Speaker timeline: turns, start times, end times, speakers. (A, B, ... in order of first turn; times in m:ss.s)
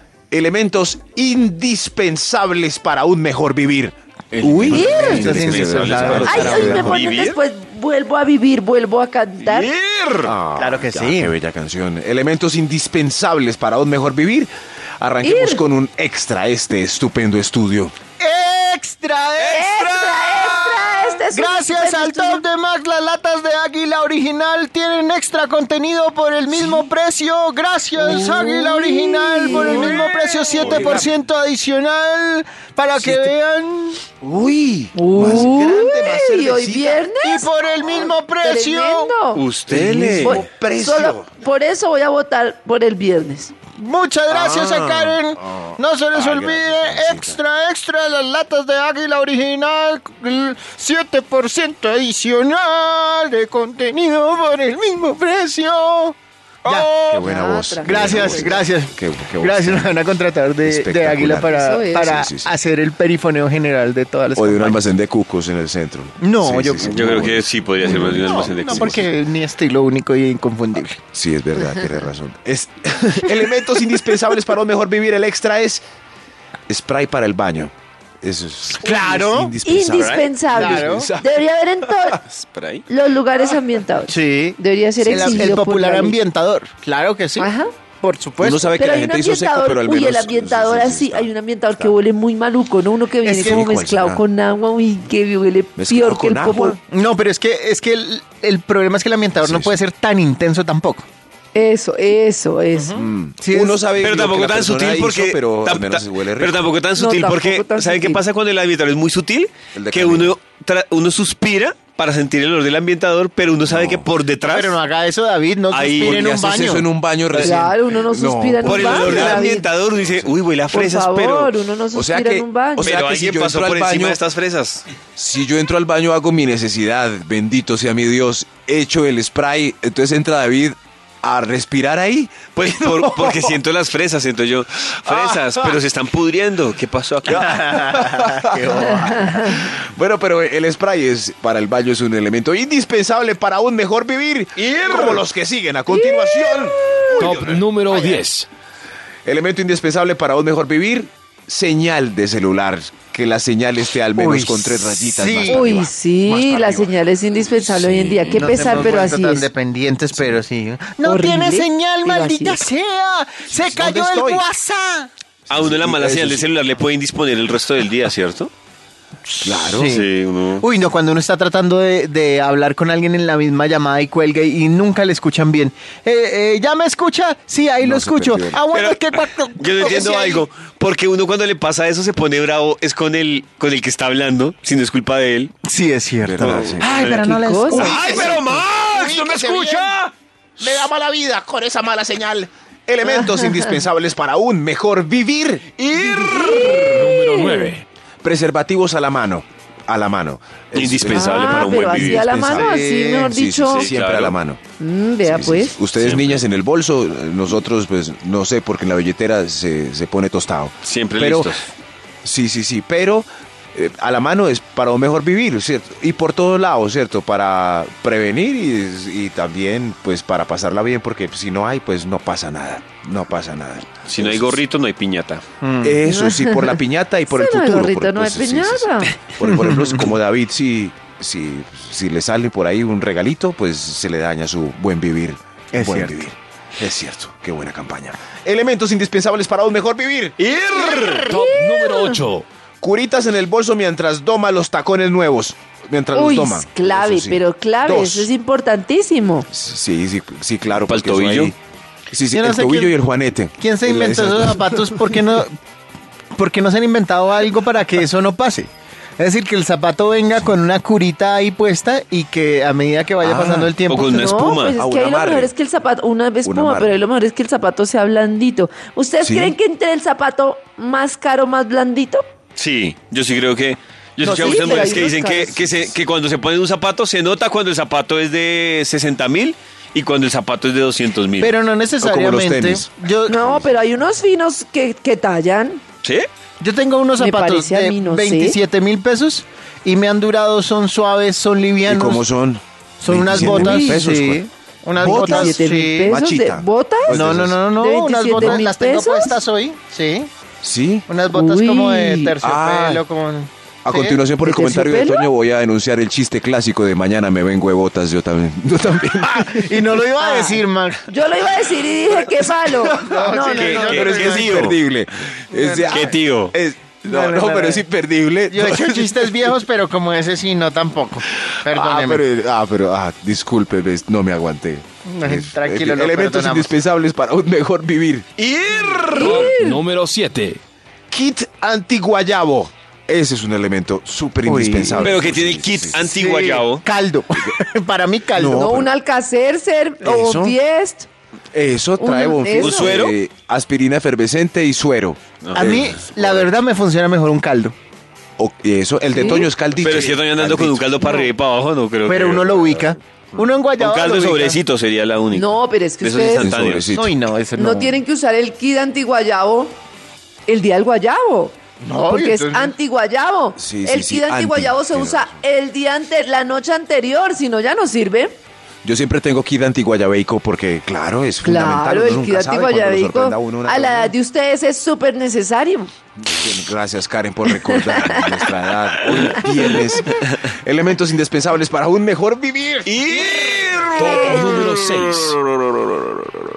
0:00.3-0:07.0 A
0:04.6-0:07.4 B
0:04.6-0:07.0 C
0:04.7-0:05.3 D
0:06.2-0:09.7 D
0:09.4-0:10.3 B
0:10.2-0:17.9 A
0:10.6-0:11.3 C
0:15.2-0:15.6 D
0:18.2-0:19.8 C
0:19.4-0:20.5 B
0:19.5-0:22.4 D
0:20.4-0:34.0 C
0:26.5-0:26.9 A
0:28.0-0:30.1 D
0:29.5-0:31.0 A
0:30.6-0:31.0 B
0:33.0-0:33.3 A
0:34.2-0:37.0 A
0:34.9-0:39.4 D
0:35.2-0:35.4 C
0:37.2-0:39.1 C
0:39.3-0:40.4 B
0:39.7-0:41.3 A
0:40.2-0:43.5 D
0:43.8-0:57.2 C
0:44.3-0:47.4 A
0:56.9-1:00.0 A
0:57.2-0:58.6 D
0:57.8-1:04.9 C
1:00.6-1:02.5 A
1:01.4-1:02.2 D
1:04.3-1:09.0 A
1:06.2-1:07.1 C
1:06.8-1:09.1 B
1:07.8-1:11.0 C
1:11.1-1:15.8 A
1:16.7-1:21.4 A
1:18.8-1:19.5 C
1:19.6-1:22.2 D
1:20.0-1:20.3 B
1:20.5-1:21.1 C
1:22.1-1:22.8 B
1:22.9-1:26.2 D
1:24.1-1:28.7 C
1:25.0-1:25.6 A
1:27.4-1:27.7 D
1:28.4-1:31.9 A
1:28.8-1:36.8 D
1:33.2-1:33.6 C
1:33.4-1:34.2 A
1:35.8-1:36.8 A
1:36.9-1:41.0 C
1:39.4-1:39.8 A
1:41.5-1:43.0 D
1:42.7-1:43.8 C
1:42.9-1:46.7 A
1:44.0-1:54.8 B
1:47.0-1:48.2 D
1:49.7-1:50.3 A
1:53.6-1:54.1 A
1:54.4-1:56.9 C
1:55.7-1:56.3 B
1:56.0-2:00.3 A
1:57.3-1:59.7 D
1:58.6-2:01.5 B
2:00.7-2:02.9 D
2:01.9-2:04.2 A
2:02.8-2:04.8 B
2:05.2-2:13.6 A
2:12.5-2:17.7 B
2:15.0-2:15.8 A
2:17.3-2:19.6 C
2:17.3-2:28.2 A
2:19.0-2:19.3 D
2:24.6-2:25.2 B
2:25.9-2:27.4 D
2:27.2-2:28.5 E
2:29.2-2:37.0 A
2:34.1-2:35.7 C
2:35.5-2:39.5 D
2:37.9-2:38.3 A
2:38.3-2:45.1 C
2:41.0-2:42.7 D
2:43.5-2:44.4 A
2:45.5-2:46.4 A
2:45.5-2:48.5 B
2:49.3-3:00.4 C
2:49.4-2:49.9 A
2:49.8-2:50.7 B
2:57.8-2:58.6 A
2:58.7-3:05.5 B
3:05.6-3:08.6 C
3:06.2-3:07.2 A
3:06.4-3:10.1 B
3:07.3-3:07.9 D
3:07.7-3:10.0 A
3:10.6-3:17.1 A
3:13.0-3:13.8 D
3:15.9-3:17.0 B
3:16.1-3:17.7 D
3:16.2-3:17.8 E
3:18.2-3:24.6 A
3:20.7-3:22.7 B
3:21.1-3:23.9 D
3:22.5-3:23.3 C
3:23.6-3:24.4 B
3:24.8-3:25.8 D
3:25.2-3:31.6 A
3:26.0-3:26.4 B
3:30.8-3:31.6 B
3:32.2-3:44.6 A
3:44.0-3:45.4 B
3:45.6-3:46.0 C
3:45.8-4:01.2 A
3:46.0-3:49.1 D
3:49.5-3:50.0 C
3:55.7-3:56.2 C
4:00.4-4:01.4 B
4:01.3-4:02.2 D
4:01.3-4:02.4 E
4:02.8-4:08.3 A
4:06.1-4:09.5 D
4:09.5-4:11.5 A
4:10.8-4:11.5 B
4:12.1-4:14.9 A
4:12.3-4:13.0 C
4:13.6-4:15.5 C
4:16.3-4:24.3 C
4:23.2-4:23.7 A
4:23.8-4:24.8 B
4:24.0-4:32.2 D
4:24.8-4:25.5 A
4:26.4-4:27.0 A
4:29.2-4:29.5 A
4:32.6-4:41.6 B
4:34.2-4:35.6 D
4:34.5-4:35.0 A
4:41.4-4:43.4 C
4:42.0-4:43.7 A
4:43.3-4:45.8 D
4:46.6-4:52.2 C
4:47.2-4:48.6 D
4:51.8-4:54.4 A
4:53.0-4:56.1 C
4:53.4-4:54.0 D
4:55.0-4:57.6 A
4:55.0-4:59.4 D
4:57.1-5:00.3 C
4:58.4-4:58.6 A
5:00.6-5:01.1 A
5:01.1-5:04.2 C
5:01.3-5:02.4 D
5:02.4-5:03.0 A
5:03.8-5:09.9 A
5:04.4-5:05.3 D
5:09.4-5:11.1 C
5:10.2-5:14.0 D
5:12.4-5:14.8 C
5:13.5-5:14.8 B
5:13.8-5:19.5 A
5:15.5-5:16.2 C
5:15.9-5:16.5 B
5:17.0-5:17.8 C
5:18.5-5:22.2 C
5:21.6-5:28.3 A
5:25.0-5:26.7 C
5:28.4-5:29.6 B
5:29.1-5:29.8 D
5:29.1-5:30.6 E
5:31.1-5:36.0 A
5:34.4-5:35.2 C
5:34.9-5:36.8 B
5:36.0-5:38.7 C
5:38.3-5:38.9 A
5:38.5-5:41.1 D
5:40.0-5:40.6 A
5:41.5-5:46.6 A
5:42.0-5:43.0 D
5:42.6-5:43.2 B
5:45.4-5:46.0 B
5:45.5-5:47.7 C
5:48.4-5:50.9 A
5:49.1-5:49.5 D
5:49.7-5:52.9 B
5:52.0-5:54.6 C
5:53.7-5:56.9 B
5:55.3-5:56.5 D
5:56.3-5:57.1 A
5:56.9-5:58.0 C
5:57.5-5:59.8 D
6:00.4-6:01.5 D
6:01.8-6:02.7 C
6:02.1-6:08.4 D
6:03.6-6:05.4 A
6:08.8-6:14.1 A
6:11.4-6:15.9 D
6:16.2-6:24.2 A
6:17.5-6:18.3 D
6:19.0-6:20.4 B
6:22.8-6:26.4 B
6:24.0-6:25.4 E
6:24.0-6:24.7 D